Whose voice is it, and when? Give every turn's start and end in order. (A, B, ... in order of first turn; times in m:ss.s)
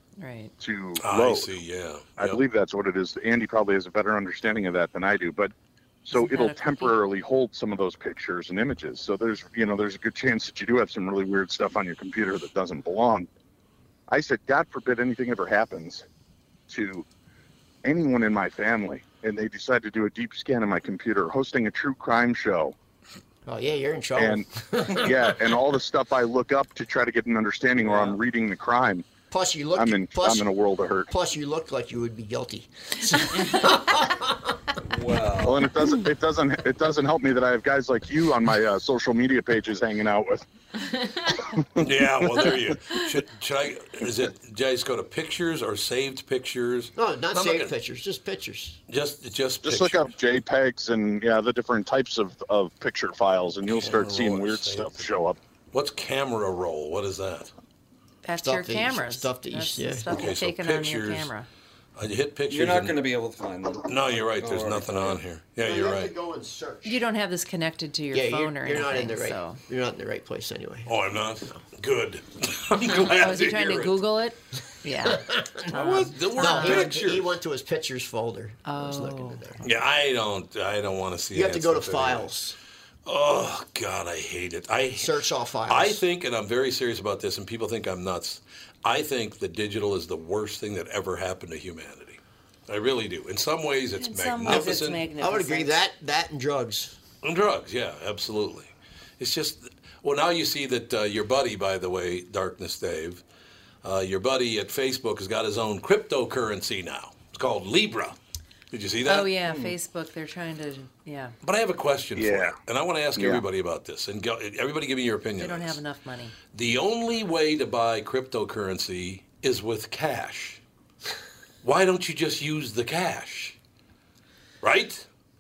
0:00.2-0:00.5 A
0:00.6-0:01.6 B
0:01.0-0:02.4 C
0:02.2-0:05.5 B
0:06.0-0:13.3 B
0:06.1-0:07.0 A
0:14.1-0:16.0 B
0:16.7-0:17.0 B
0:17.8-0:22.8 B
0:23.5-0:25.6 D
0:24.2-0:29.1 B
0:29.3-0:30.5 D
0:29.8-0:31.1 B
0:31.1-0:34.6 D
0:34.9-0:35.7 E
0:35.4-0:40.4 B
0:41.6-0:42.6 B
0:41.8-0:47.7 C
0:47.0-0:48.8 D
0:48.9-0:50.0 C
0:49.6-0:55.4 B
0:53.7-0:55.1 C
0:55.7-0:57.5 C
0:58.2-1:01.5 A
0:58.4-1:00.3 D
1:00.1-1:01.3 C
1:02.0-1:03.0 C
1:02.5-1:03.9 E
1:03.9-1:06.1 C
1:04.4-1:05.2 E
1:05.6-1:07.0 D
1:06.8-1:09.6 A
1:08.1-1:11.6 D
1:10.9-1:14.0 C
1:12.7-1:16.9 A
1:15.0-1:15.7 D
1:15.7-1:17.4 C
1:16.2-1:19.7 D
1:18.6-1:19.5 A
1:19.6-1:22.3 C
1:21.3-1:22.6 D
1:23.1-1:25.1 C
1:24.9-1:26.0 D
1:25.7-1:35.0 C
1:34.0-1:35.8 A
1:34.5-1:37.0 D
1:37.2-1:43.2 C
1:43.8-1:48.2 C
1:48.7-1:49.3 C
1:49.0-1:51.3 A
1:49.4-1:49.8 E
1:51.4-1:55.8 C
1:52.2-1:52.6 B
1:53.2-1:53.4 B
1:55.4-1:56.4 A
1:56.5-2:00.6 C
2:01.6-2:03.6 C
2:04.6-2:05.1 C